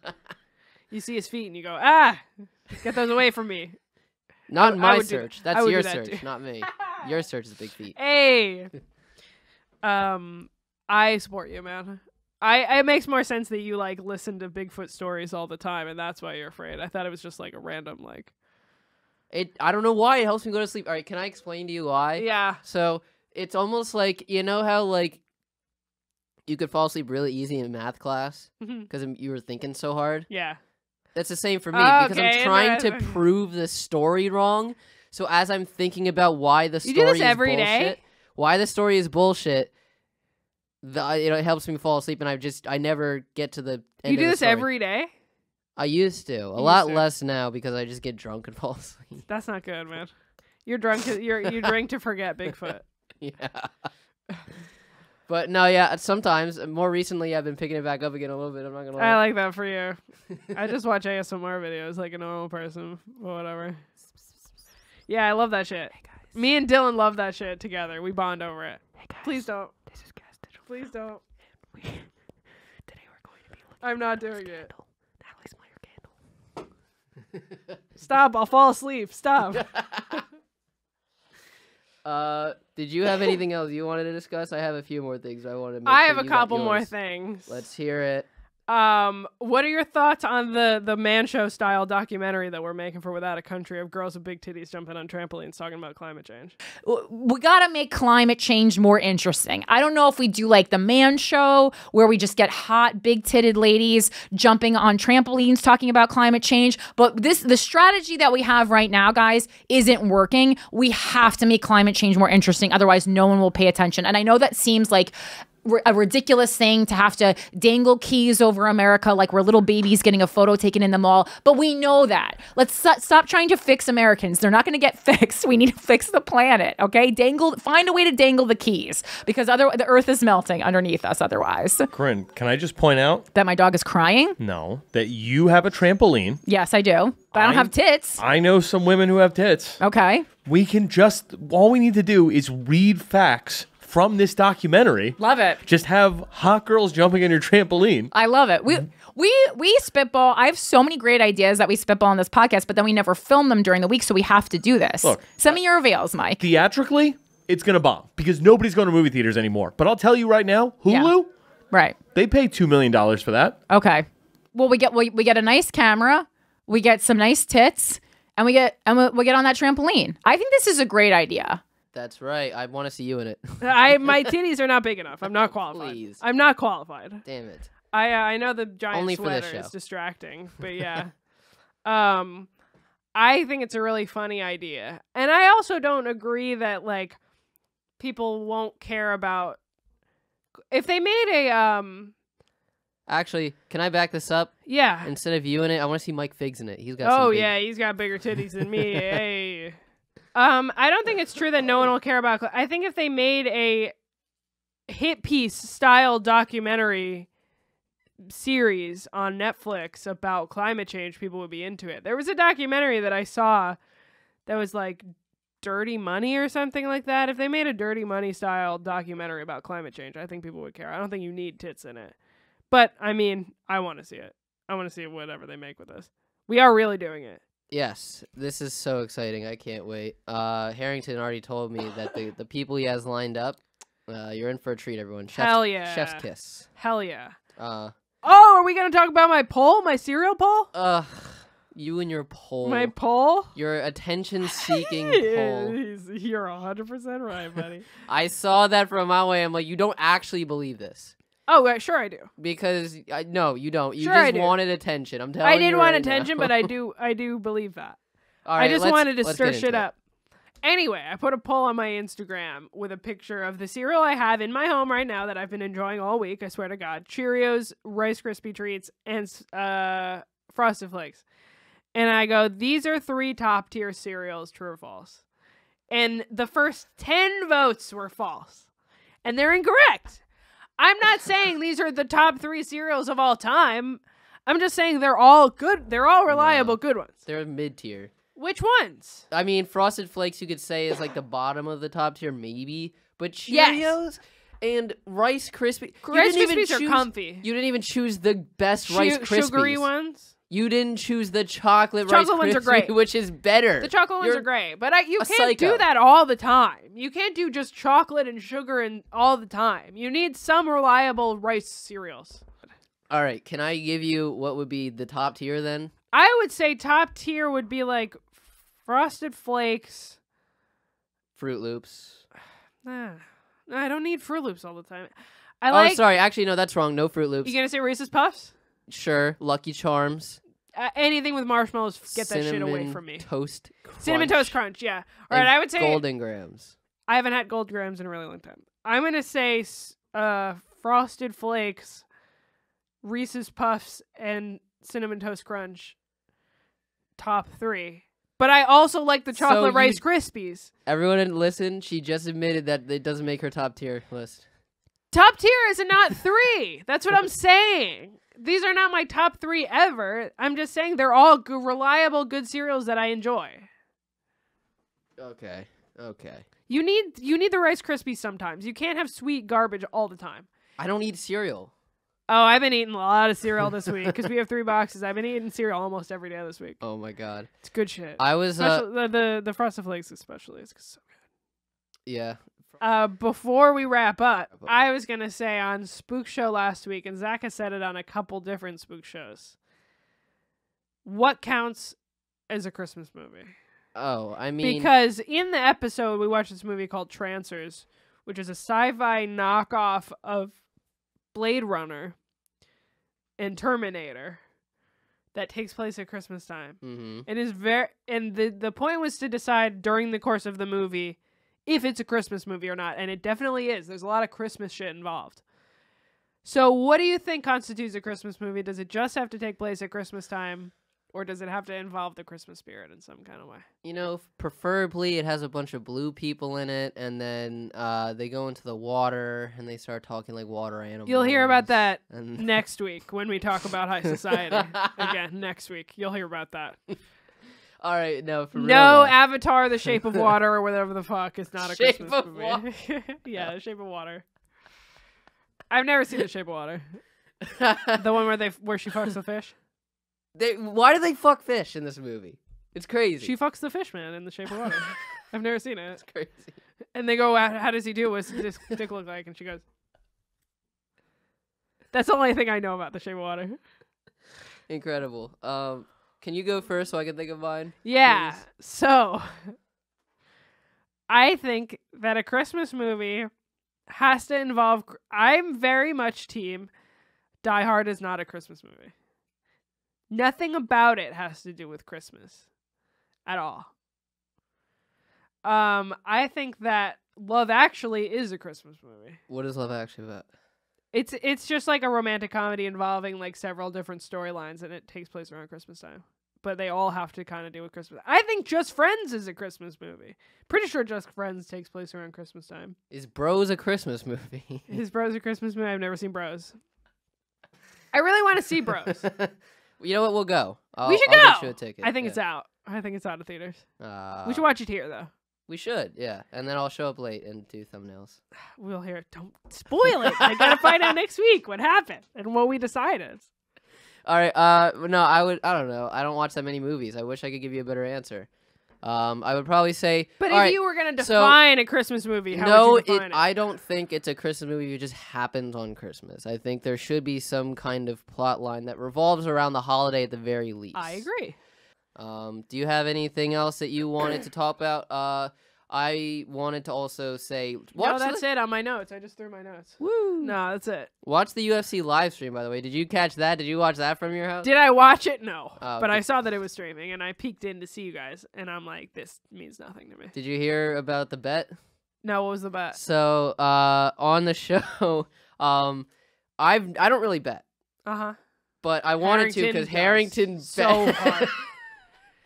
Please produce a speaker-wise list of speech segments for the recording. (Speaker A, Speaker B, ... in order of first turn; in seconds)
Speaker A: 0.9-3.8, 4.6-6.2, 8.0-8.7, 9.8-18.3, 22.2-22.6, 28.6-28.9, 30.3-30.6, 31.7-33.2, 36.8-38.0, 44.0-45.1, 46.6-47.1, 49.3-50.1, 50.6-52.9, 59.0-63.8, 65.1-69.7, 70.7-71.2, 73.8-74.7, 78.0-79.7, 85.9-87.5, 88.7-96.6, 173.6-177.2, 177.9-181.1, 181.8-182.5, 183.1-187.2, 188.0-189.6, 190.7-192.1, 194.7-195.1, 197.0-199.8, 200.3-203.9, 204.9-207.3, 208.3-213.8, 214.4-215.1, 215.6-222.1, 222.7-227.4, 235.3-237.4, 238.2-240.7, 242.6-243.5, 244.6-247.9, 251.5-252.3, 254.0-254.6, 255.4-258.0, 258.6-259.9, 260.6-271.2, 271.9-275.2, 275.9-278.6, 279.2-280.2, 280.8-287.2, 288.4-289.2, 293.5-293.9, 296.0-297.4, 298.9-300.3, 302.1-302.9, 303.8-312.4, 316.1-318.3, 318.8-320.2, 322.8-326.0, 327.4-328.5, 330.8-333.3, 334.0-336.0, 337.1-342.1, 343.0-345.9, 347.2-350.7, 355.1-363.7, 366.7-370.5, 372.3-376.8, 377.6-381.0, 382.8-389.6, 391.1-391.9, 392.5-393.5, 394.6-400.6, 401.3-402.1, 403.4-404.4, 405.3-415.4, 416.4-423.6, 431.1-436.8, 438.6-444.2, 445.7-447.0, 447.9-449.5, 453.2-456.0, 456.9-459.6, 461.9-463.6, 467.8-469.6, 471.1-473.3, 473.9-476.7, 477.4-478.9, 480.1-482.4, 483.3-483.7, 485.4-489.2, 490.9-502.8, 504.7-506.6, 507.9-509.0, 510.9-513.6, 514.2-515.1, 518.6-523.2, 530.2-533.2, 540.7-541.4, 547.8-550.9, 554.4-560.1, 562.0-562.8, 567.9-568.2, 569.0-571.3
Speaker B: 4.5-8.0, 19.3-25.2, 26.4-30.3, 31.1-39.7, 40.8-44.7, 45.8-49.2, 53.2-53.9, 55.3-59.2, 79.6-80.2, 82.0-86.9, 87.5-88.3, 171.9-174.2, 175.3-176.2, 177.2-177.7, 178.9-179.7, 193.1-197.6, 227.7-236.7, 237.6-237.9, 240.7-242.9, 243.5-245.8, 248.1-251.1, 252.4-256.7, 258.4-259.8, 286.3-288.1, 289.3-299.9, 300.5-304.5, 305.2-305.9, 313.1-315.9, 321.4-322.2, 325.7-327.6, 328.9-330.4, 332.1-334.6, 335.3-336.7, 349.4-350.0, 350.9-354.4, 365.2-366.4, 370.8-371.7, 376.8-377.5, 378.2-378.9, 382.1-382.4, 393.9-394.9, 406.8-407.2, 423.8-432.4, 434.5-435.1, 437.8-439.2, 441.6-442.6, 447.4-448.0, 450.4-453.3, 456.0-456.6, 464.7-468.4, 489.3-490.3, 502.9-504.7, 508.9-512.2, 513.8-514.5, 515.5-518.2, 520.2-520.7, 524.0-528.3, 528.8-531.4, 532.3-541.0, 542.0-548.2, 549.8-550.4, 551.0-554.5, 555.6-556.0, 560.1-561.5, 562.7-565.9, 566.4-567.4, 568.6-571.4
Speaker C: 96.8-131.9, 133.3-134.4, 136.4-138.2, 139.8-140.3, 145.2-145.6, 148.1-156.4, 160.9-161.1, 161.7-162.0, 163.7-171.6
Speaker D: 131.9-133.2, 134.4-136.4, 137.3-139.8, 140.4-148.1, 155.0-155.6, 156.4-161.3, 162.1-163.6